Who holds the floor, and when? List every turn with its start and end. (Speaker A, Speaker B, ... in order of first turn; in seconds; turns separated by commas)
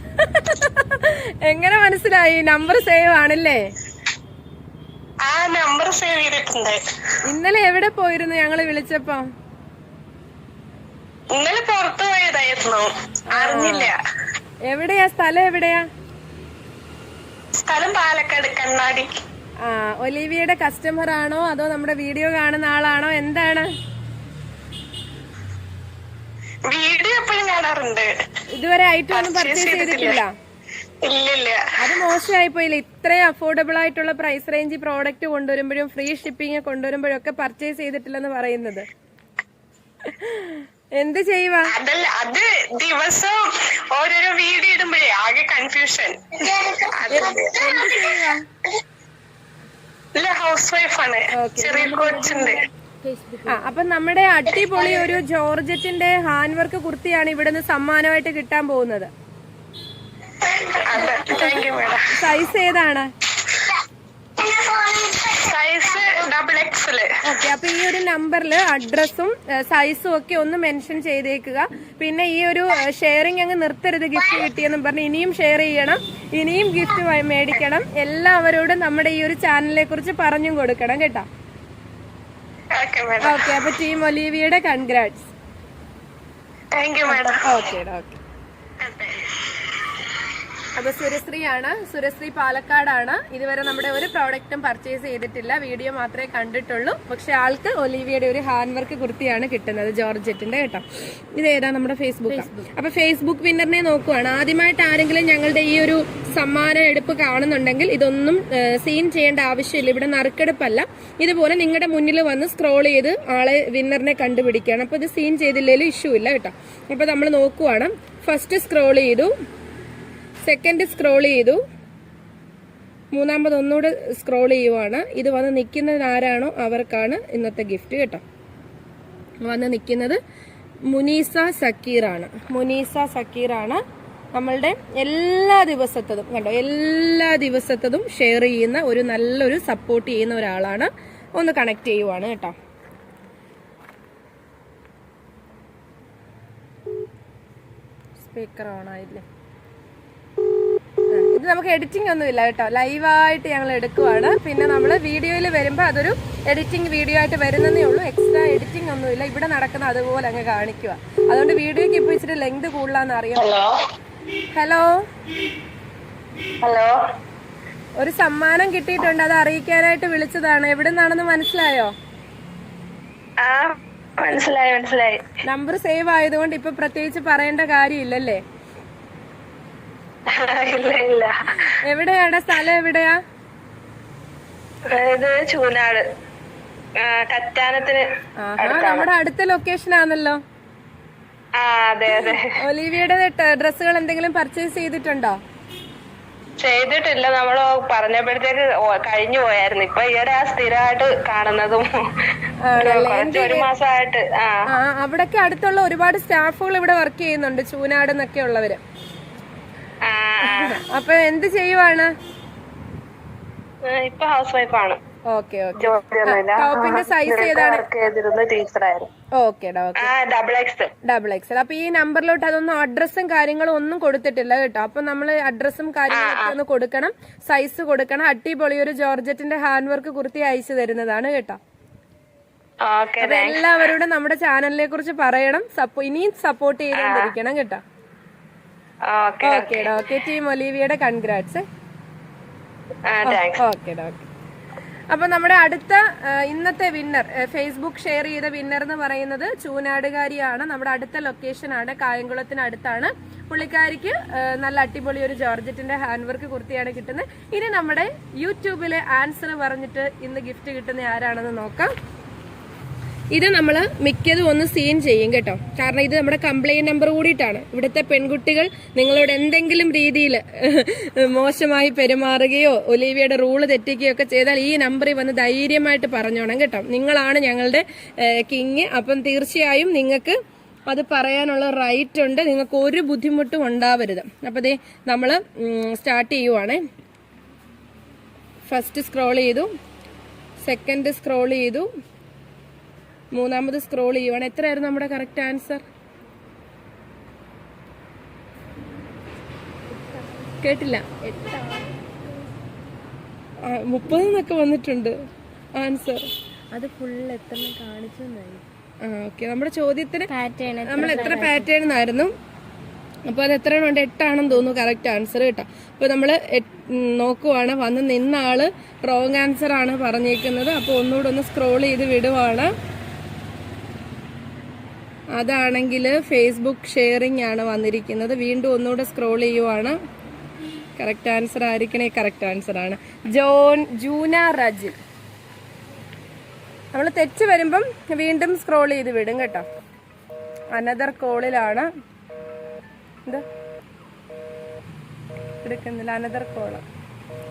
Speaker A: 0.2-3.6, Speaker B: 5.2-6.8, Speaker A: 7.2-9.2, Speaker B: 11.3-14.0, Speaker A: 13.3-13.9, Speaker A: 14.7-15.9, Speaker B: 17.5-19.2, Speaker A: 19.6-23.7, Speaker B: 26.6-28.1, Speaker A: 28.5-30.3, Speaker B: 29.1-30.2, Speaker B: 31.0-32.2, Speaker A: 31.8-38.9, Speaker A: 40.0-41.8, Speaker B: 41.7-48.2, Speaker A: 47.1-48.4, Speaker B: 50.1-52.6, Speaker A: 51.3-52.2, Speaker C: 51.6-53.7, Speaker A: 53.5-59.1, Speaker B: 54.8-55.0, Speaker B: 60.4-62.1, Speaker A: 61.0-63.1, Speaker B: 64.4-67.1, Speaker A: 67.2-81.3, Speaker B: 82.7-83.7, Speaker A: 83.2-85.3, Speaker B: 86.7-87.7, Speaker A: 87.1-88.2, Speaker B: 88.8-89.7, Speaker A: 90.8-119.3, Speaker C: 102.3-102.7, Speaker A: 120.4-121.6, Speaker A: 123.1-128.2, Speaker A: 129.4-130.2, Speaker A: 130.9-133.8, Speaker A: 134.3-142.6, Speaker A: 148.2-149.2, Speaker A: 151.1-163.5, Speaker B: 163.4-163.7, Speaker A: 164.5-164.9, Speaker B: 166.6-166.9, Speaker A: 168.0-171.9, Speaker B: 173.4-175.2, Speaker A: 175.4-178.4, Speaker B: 180.3-181.7, Speaker A: 181.5-183.2, Speaker B: 184.9-186.0, Speaker B: 187.0-188.0, Speaker A: 188.4-190.4, Speaker B: 188.6-189.1, Speaker B: 191.6-192.5, Speaker A: 192.1-195.4, Speaker B: 196.6-201.9, Speaker A: 202.6-203.7, Speaker B: 202.8-204.6, Speaker A: 204.7-208.8, Speaker B: 210.1-210.8, Speaker A: 210.4-212.1, Speaker B: 213.9-215.0, Speaker A: 215.3-217.8, Speaker B: 215.8-219.1, Speaker A: 219.3-220.1, Speaker B: 220.0-220.9, Speaker A: 221.0-231.6, Speaker B: 226.1-226.6, Speaker B: 232.8-233.7, Speaker A: 233.2-237.8, Speaker B: 237.0-237.3, Speaker B: 239.1-239.9, Speaker A: 239.4-241.7, Speaker B: 243.1-243.6, Speaker A: 243.2-244.3, Speaker A: 245.1-261.9, Speaker A: 263.3-280.4, Speaker A: 280.9-286.8, Speaker A: 288.7-289.7, Speaker A: 290.6-291.9, Speaker A: 293.3-295.8, Speaker C: 299.9-302.5, Speaker A: 300.6-301.1, Speaker A: 303.7-305.1, Speaker A: 305.8-306.3, Speaker C: 306.7-308.6, Speaker A: 309.0-310.3, Speaker C: 310.3-311.7, Speaker A: 310.9-312.3, Speaker A: 313.3-322.7, Speaker A: 325.4-330.0, Speaker A: 331.0-334.9, Speaker A: 336.9-339.6, Speaker A: 340.8-341.9, Speaker A: 345.6-346.8